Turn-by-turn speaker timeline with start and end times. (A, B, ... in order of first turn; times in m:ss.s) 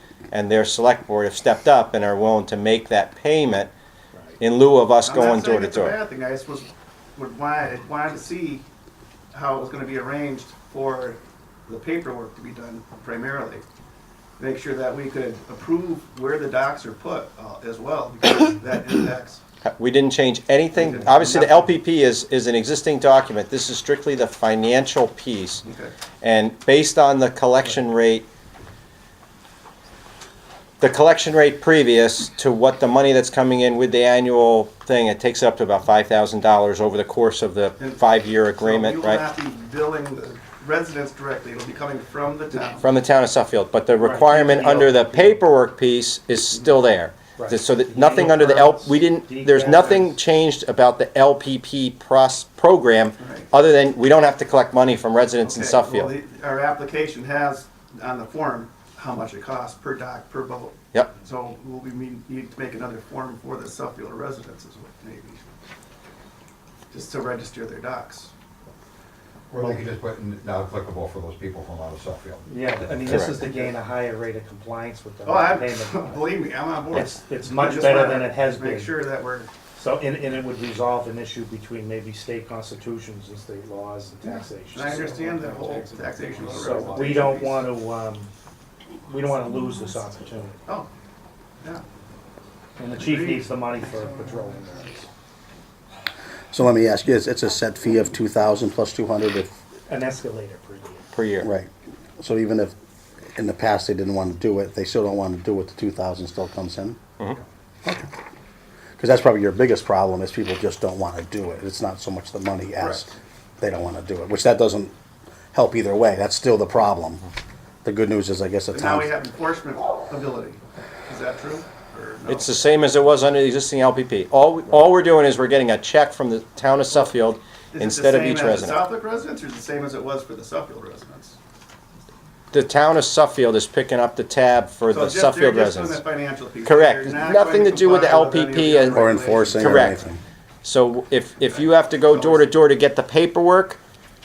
0:00.3-0:03.7 A
0:04.4-0:06.0 A
0:05.0-0:08.6 B
0:09.3-0:13.6 B
0:14.4-0:19.4 B
0:19.6-0:25.6 A
0:20.7-0:21.7 B
0:25.6-0:25.9 B
0:26.2-0:28.3 A
0:30.8-0:39.2 A
0:38.6-0:42.8 B
0:42.8-0:56.1 A
0:44.0-0:45.4 C
0:47.4-0:50.2 C
0:53.2-0:53.5 B
0:55.4-1:05.4 B
1:06.9-1:08.3 B
1:09.5-1:13.4 D
1:12.5-1:16.3 C
1:13.1-1:13.4 A
1:13.3-1:13.8 B
1:15.2-1:19.5 B
1:16.9-1:19.1 C
1:19.7-1:25.6 C
1:24.2-1:27.7 B
1:26.5-1:28.3 C
1:26.7-1:27.2 D
1:29.0-1:30.7 C
1:32.8-1:35.1 C
1:33.0-1:33.5 B
1:36.5-1:39.6 E
1:39.9-1:41.1 C
1:41.1-1:41.5 A
1:41.4-1:42.7 E
1:43.3-1:47.0 E
1:49.0-1:54.9 E
1:52.8-1:53.0 B
1:55.5-1:57.3 E
1:57.8-1:59.1 E
1:58.7-2:02.7 B
2:02.3-2:08.8 A
2:07.7-2:11.4 B
2:12.5-2:16.0 A
2:14.9-2:19.9 B
2:16.6-2:20.1 A
2:18.9-2:20.2 E
2:20.6-2:23.8 A
2:21.5-2:22.5 B